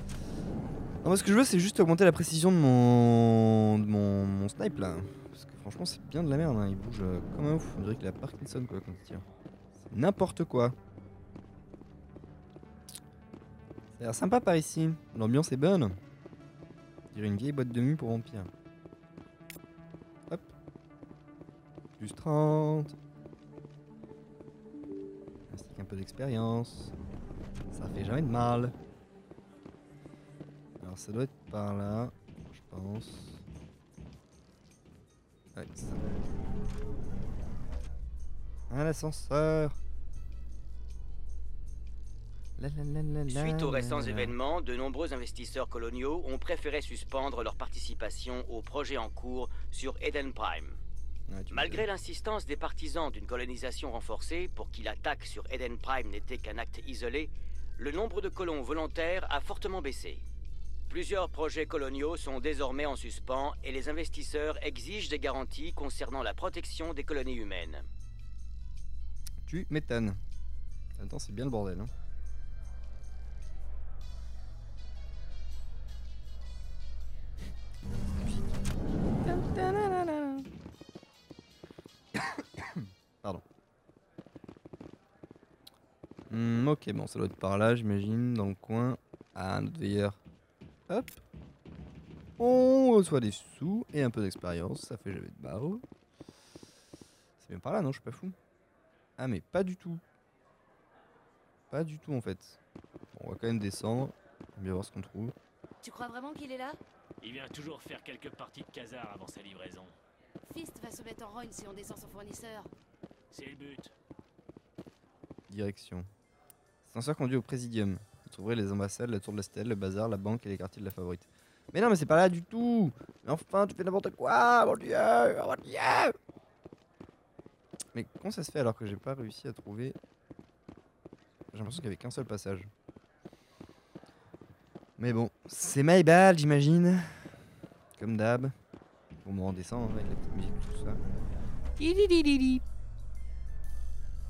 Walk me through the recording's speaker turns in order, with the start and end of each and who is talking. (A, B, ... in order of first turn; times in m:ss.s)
0:01.0-0:09.2 A
0:09.8-0:10.8 A
0:13.9-0:16.0 A
0:17.1-0:18.5 A
0:22.0-0:22.9 A
0:25.5-0:26.9 A
0:27.7-0:28.7 A
0:30.8-0:33.4 A
0:35.5-0:36.2 A
0:38.7-0:39.8 A
0:42.6-0:44.4 A
0:43.3-0:50.8 B
0:51.3-0:51.8 A
0:51.5-1:00.2 B
1:00.9-1:07.8 B
1:09.4-1:10.2 A
1:11.0-1:11.9 A
1:19.2-1:20.5 A
1:22.2-1:23.4 A
1:26.3-1:30.2 A
1:30.9-1:31.2 A
1:32.4-1:35.8 A
1:37.4-1:38.3 A
1:39.2-1:40.0 A
1:41.7-1:42.6 A
1:43.1-1:45.3 A
1:45.8-1:46.8 C
1:47.2-1:49.9 D
1:50.4-1:52.7 C
1:53.3-1:53.9 D
1:55.5-1:56.1 A
1:56.8-2:06.1 A
2:07.9-2:10.0 A
2:11.5-2:12.7 A
2:15.0-2:17.3 A
2:18.0-2:18.5 A
2:19.2-2:21.0 A